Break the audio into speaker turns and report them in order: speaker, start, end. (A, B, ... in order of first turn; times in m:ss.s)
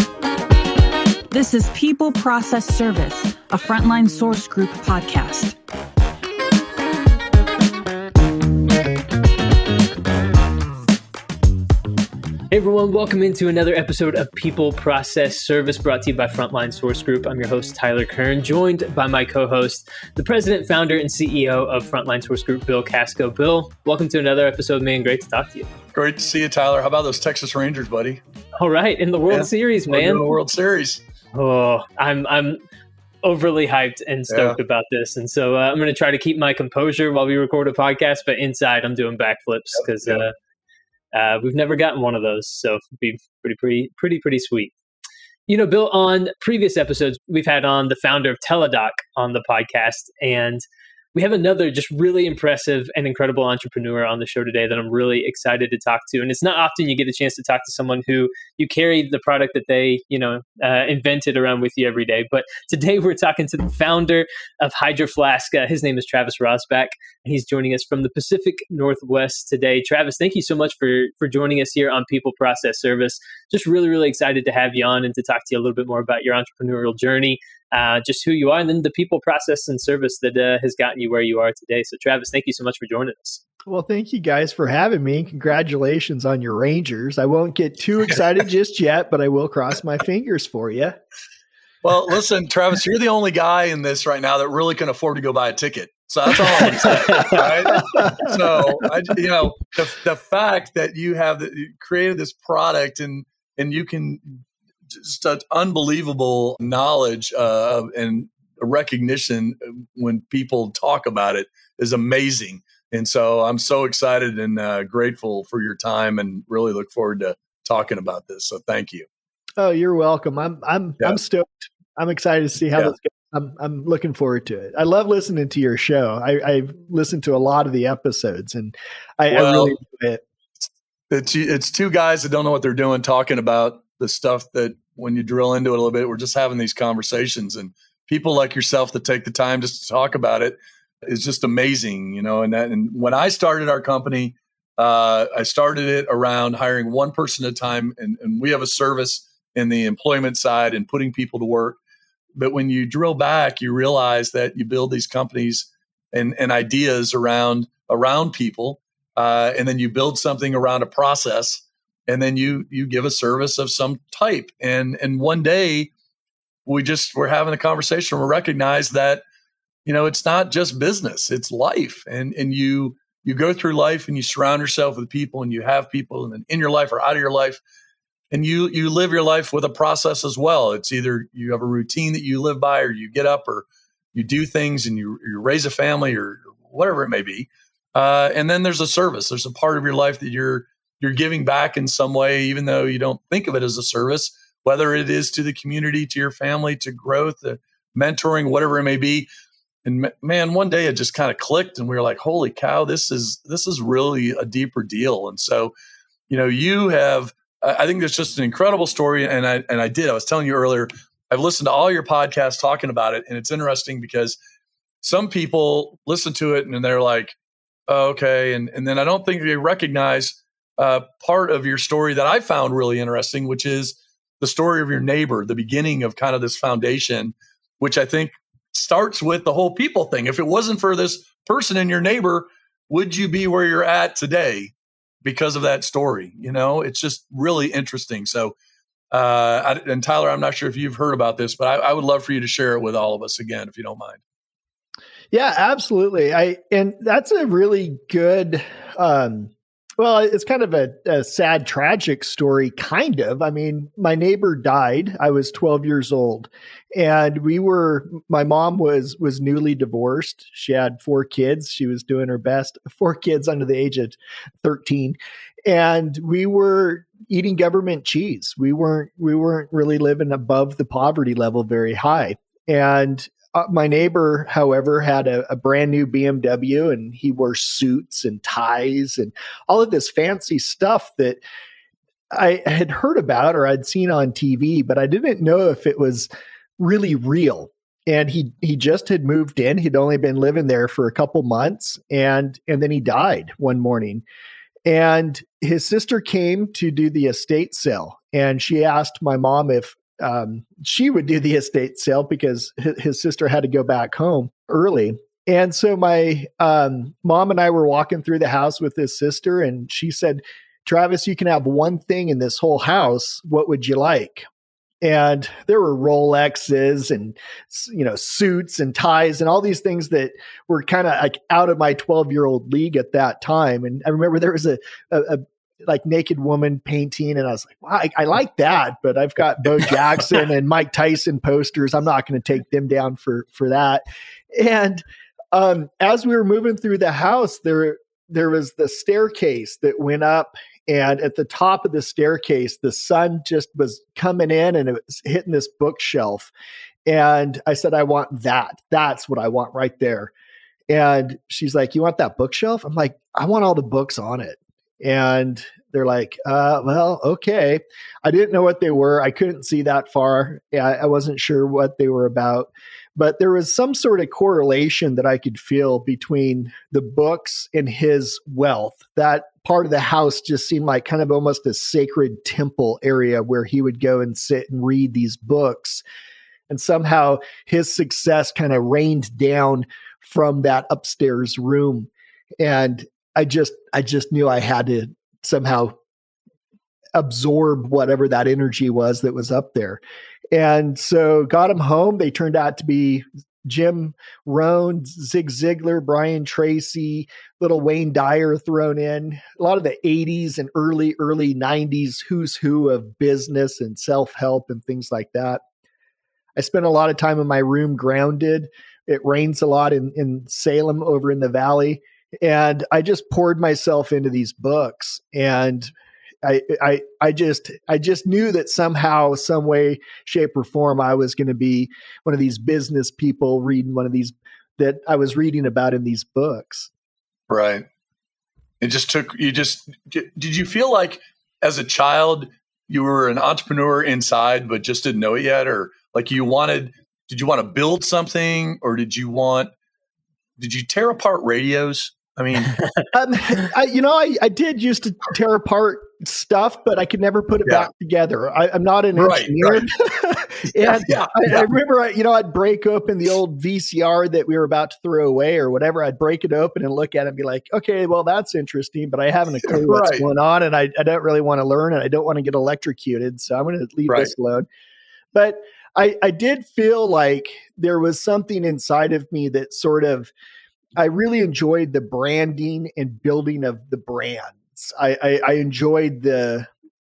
0:01.3-0:05.6 A
0:12.5-0:25.7 B
0:25.9-0:28.2 C
0:28.6-0:30.3 B
0:29.3-0:31.0 C
0:31.3-0:32.6 B
0:33.2-0:40.4 B
0:34.3-0:34.6 C
0:41.1-0:44.8 B
0:45.5-1:23.4 B
1:23.7-1:31.0 D
1:31.8-1:44.3 C
1:36.8-1:37.4 B
1:37.7-1:38.4 D
1:44.9-1:59.1 C
1:59.6-2:10.2 D
2:09.3-2:09.8 C
2:11.1-2:31.8 C
2:32.4-2:45.9 C
2:46.7-2:49.2 C
2:49.8-2:57.6 C
2:58.3-3:19.3 C
3:19.8-3:25.7 C
3:26.3-3:34.4 C
3:35.0-3:37.4 C
3:37.9-3:58.5 C
3:59.1-4:04.2 C
4:05.3-4:41.4 D
4:42.3-4:54.2 D
4:54.9-5:14.5 D
5:15.0-5:46.5 D
5:47.1-5:50.3 D
5:50.9-6:16.0 D
6:16.7-6:26.0 D
6:27.2-6:30.0 D
6:30.5-6:45.6 D
6:46.6-6:55.9 D
6:56.4-7:06.9 D
7:07.5-7:07.8 C
7:08.8-7:19.7 C
7:20.6-7:22.8 C
7:23.1-7:44.7 D
7:29.2-7:29.9 C
7:30.8-7:31.7 C
7:39.6-7:40.2 C
7:45.3-7:50.3 D
7:51.0-7:56.7 D